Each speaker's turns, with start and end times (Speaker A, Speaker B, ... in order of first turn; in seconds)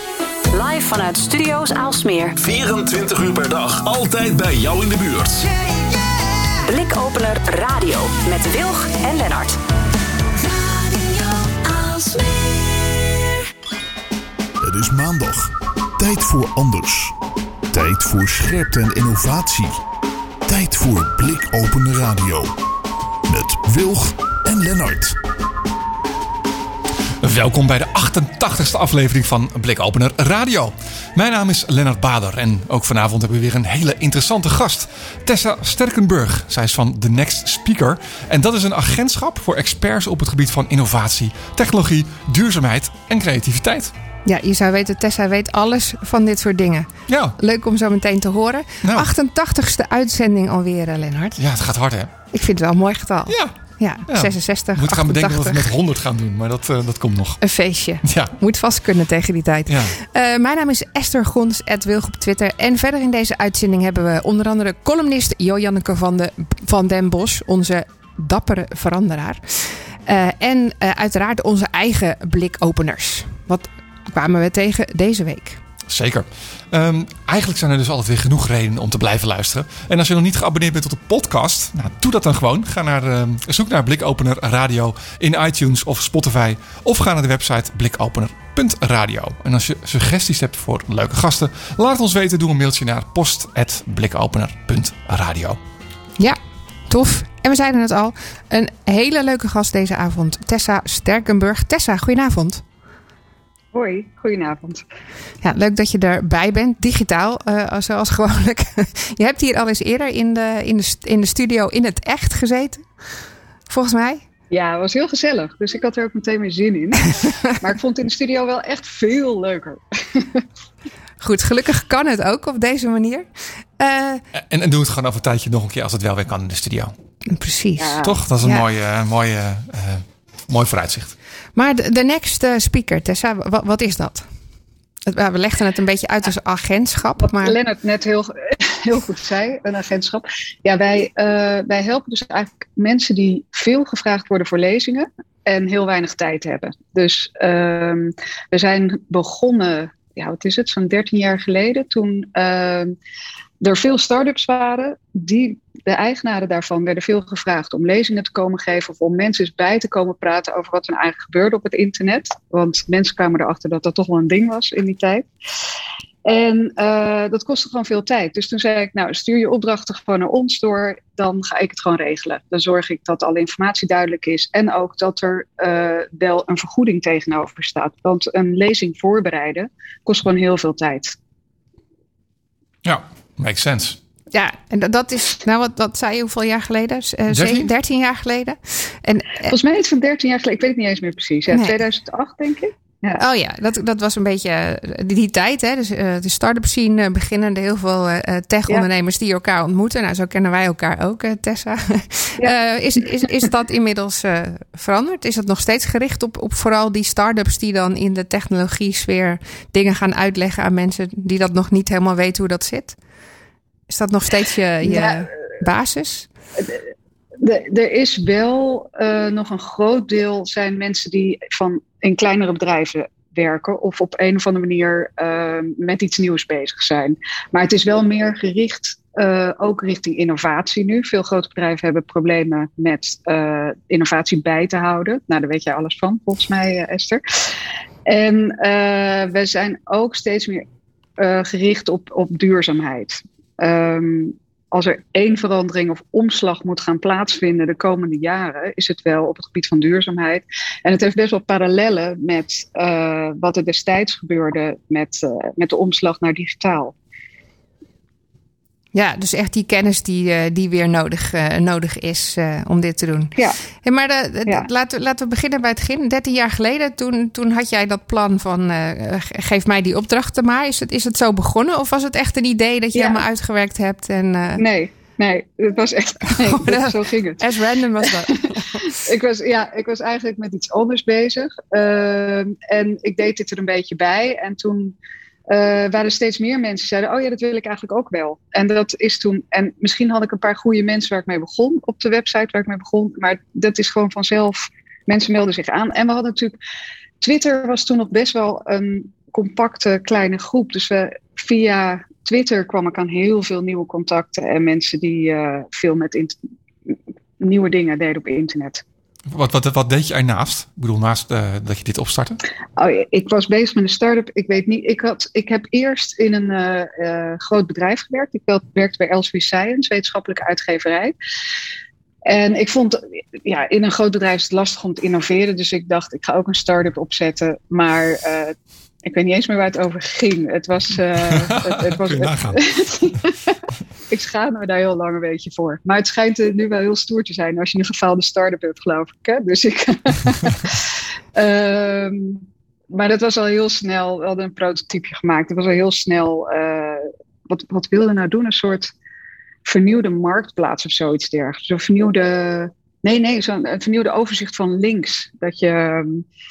Speaker A: 0.5-2.4, 6.6-9.6, 10.4-12.8
Speaker B: 2.4-5.5, 14.6-17.1, 17.7-19.8, 20.5-22.5, 23.3-25.2
Speaker C: 27.2-43.9, 47.1-47.4, 51.4-52.1, 53.3-53.5, 54.1-57.4, 58.0-58.4, 59.7-60.0, 75.9-95.6, 124.4-126.9, 128.0-131.1, 182.8-184.0, 187.3-187.7, 309.3-312.4, 331.3-333.2
Speaker D: 44.2-51.4, 52.3-55.7, 57.4-75.6, 96.9-102.6, 105.4-112.9, 113.7-114.2, 121.2-124.2, 127.3-128.6, 131.6-134.3, 135.1-137.6, 184.3-189.6, 193.2-213.0, 213.9-216.3, 258.9-263.3, 263.8-274.6, 276.3-279.0
Speaker E: 103.7-104.8, 114.5-120.5, 127.8-128.2, 137.2-153.0, 153.6-165.3, 166.2-181.2, 189.5-193.2, 214.8-215.3, 217.4-237.2, 238.1-240.7, 241.2-256.9, 272.9-273.2, 274.6-277.4, 279.0-285.0, 285.5-296.6, 297.2-306.4, 306.9-308.8, 312.8-321.1, 322.3-348.9, 349.6-356.3